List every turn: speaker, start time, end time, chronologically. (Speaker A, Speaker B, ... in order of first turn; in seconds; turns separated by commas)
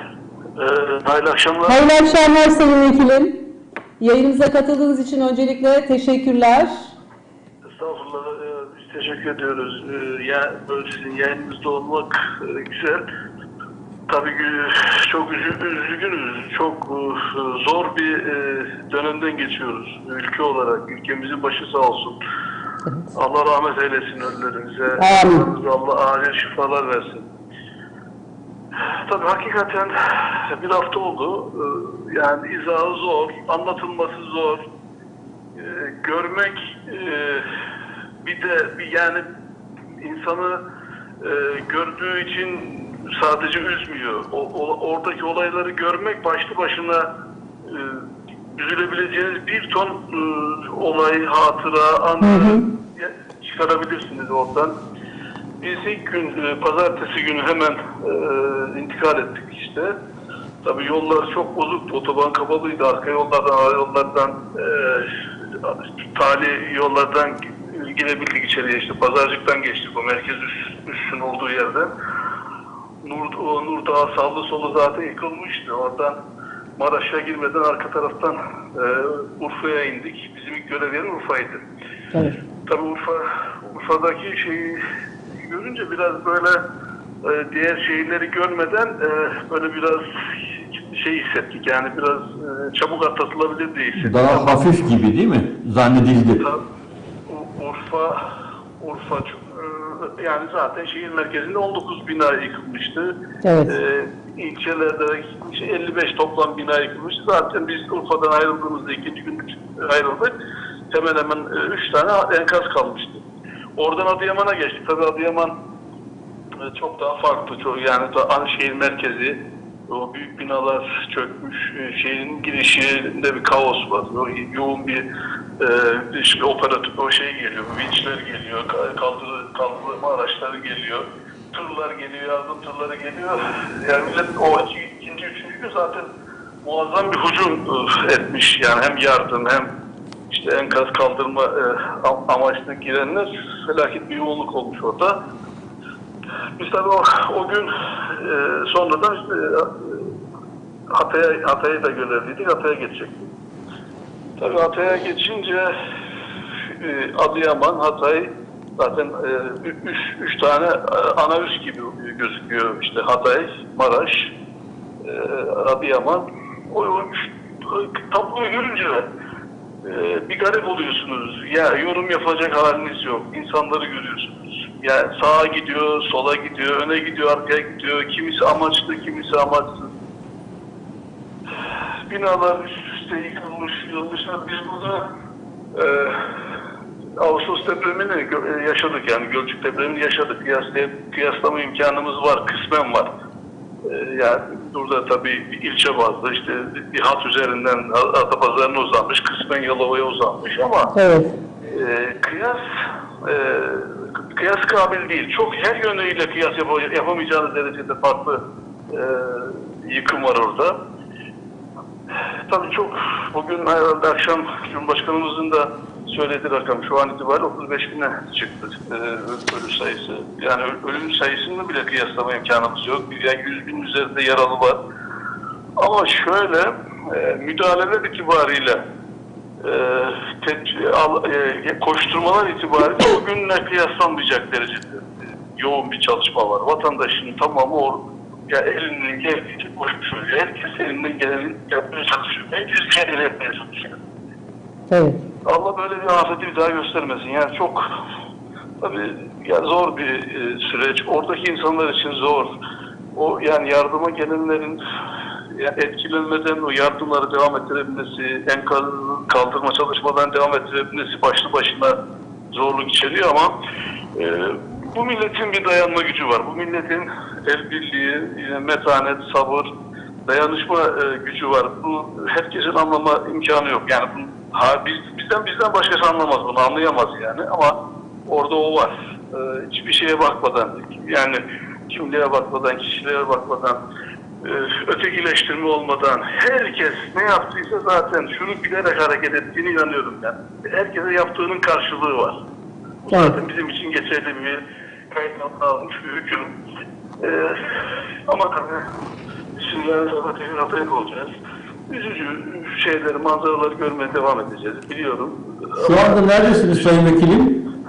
Speaker A: 0.6-1.8, Speaker B: 1.7-3.4, Speaker B: 4.0-6.7, Speaker A: 7.8-13.1, Speaker A: 14.1-22.2, Speaker A: 23.1-27.3, Speaker B: 25.0-25.5, Speaker A: 28.8-34.6, Speaker A: 35.6-37.5, Speaker A: 38.2-39.3, Speaker A: 40.0-40.6, Speaker A: 41.2-47.1, Speaker A: 47.6-54.7, Speaker B: 52.2-52.6, Speaker A: 55.6-59.9, Speaker A: 60.6-71.9, Speaker A: 73.0-76.2, Speaker A: 76.8-81.6, Speaker B: 82.1-82.4, Speaker A: 82.7-84.8, Speaker A: 85.4-86.6, Speaker A: 87.2-94.6, Speaker C: 94.0-96.4, Speaker A: 97.3-98.2, Speaker A: 98.8-103.2, Speaker B: 103.4-103.8, Speaker A: 103.7-110.3, Speaker A: 110.9-113.2, Speaker A: 113.8-115.5, Speaker A: 116.6-125.1, Speaker A: 125.6-136.1, Speaker A: 136.6-139.7, Speaker A: 140.3-145.2, Speaker A: 146.6-150.1, Speaker A: 150.9-153.3, Speaker A: 154.4-155.7, Speaker A: 156.7-164.3, Speaker A: 165.0-169.1, Speaker A: 169.8-179.9, Speaker A: 182.1-185.1, Speaker A: 185.7-186.2, Speaker A: 187.2-193.1, Speaker A: 193.8-200.9, Speaker B: 200.9-201.3, Speaker A: 201.7-202.6, Speaker A: 203.2-210.8, Speaker A: 212.5-224.8, Speaker A: 225.8-228.8, Speaker A: 229.6-244.0, Speaker B: 244.9-245.2, Speaker A: 245.5-247.8, Speaker A: 248.8-252.5, Speaker A: 253.2-254.8, Speaker A: 255.5-261.9, Speaker A: 262.5-263.5, Speaker A: 264.2-269.7, Speaker A: 270.3-277.8, Speaker A: 278.3-283.8, Speaker A: 284.4-292.4, Speaker A: 293.1-296.5, Speaker B: 293.1-293.4, Speaker A: 297.2-298.9, Speaker A: 299.6-301.3, Speaker A: 301.9-306.9, Speaker C: 305.8-307.6